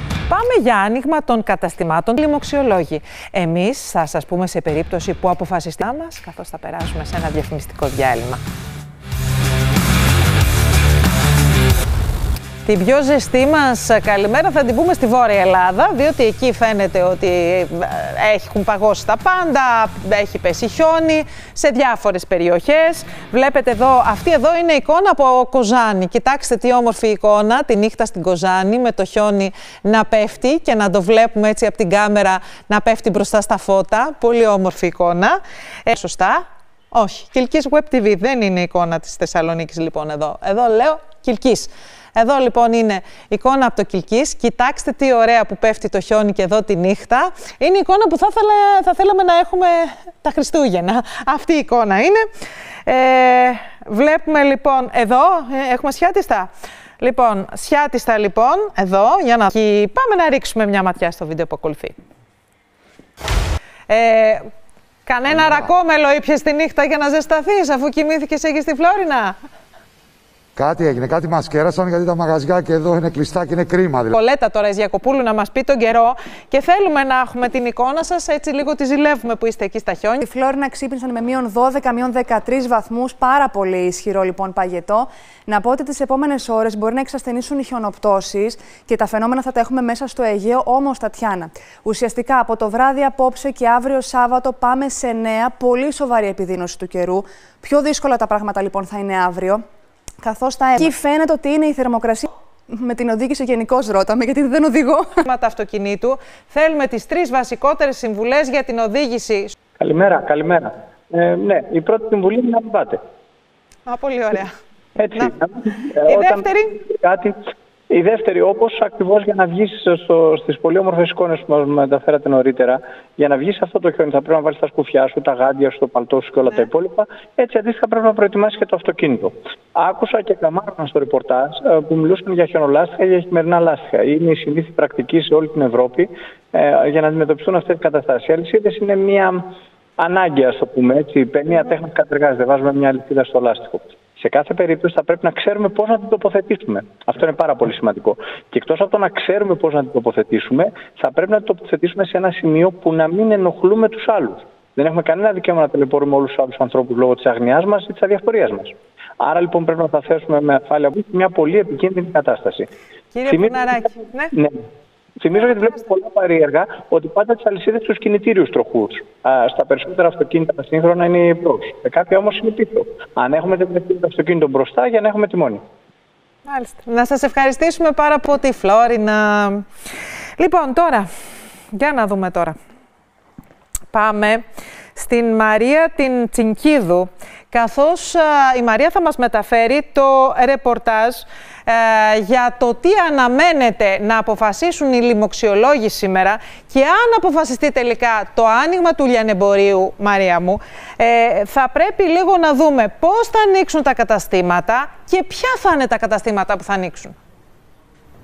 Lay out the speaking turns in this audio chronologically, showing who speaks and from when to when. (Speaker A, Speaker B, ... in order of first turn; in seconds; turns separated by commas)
Speaker A: 0.3-8.4, Speaker A: 12.7-52.2, Speaker A: 52.9-56.5, Speaker A: 57.0-62.0, Speaker A: 63.9-64.4, Speaker A: 65.1-69.3, Speaker B: 65.3-65.7, Speaker B: 70.6-74.2, Speaker A: 74.1-80.2, Speaker C: 80.2-99.6, Speaker C: 100.2-105.1, Speaker A: 105.2-109.5, Speaker D: 109.8-113.0, Speaker A: 113.9-114.5, Speaker D: 115.0-117.4, Speaker A: 116.1-116.8, Speaker D: 117.9-139.4, Speaker D: 140.0-162.7, Speaker A: 163.1-164.3, Speaker D: 163.3-164.6, Speaker D: 165.2-175.6, Speaker A: 176.5-179.6, Speaker A: 180.4-181.1, Speaker A: 181.7-182.6, Speaker A: 183.9-184.4, Speaker A: 184.9-207.1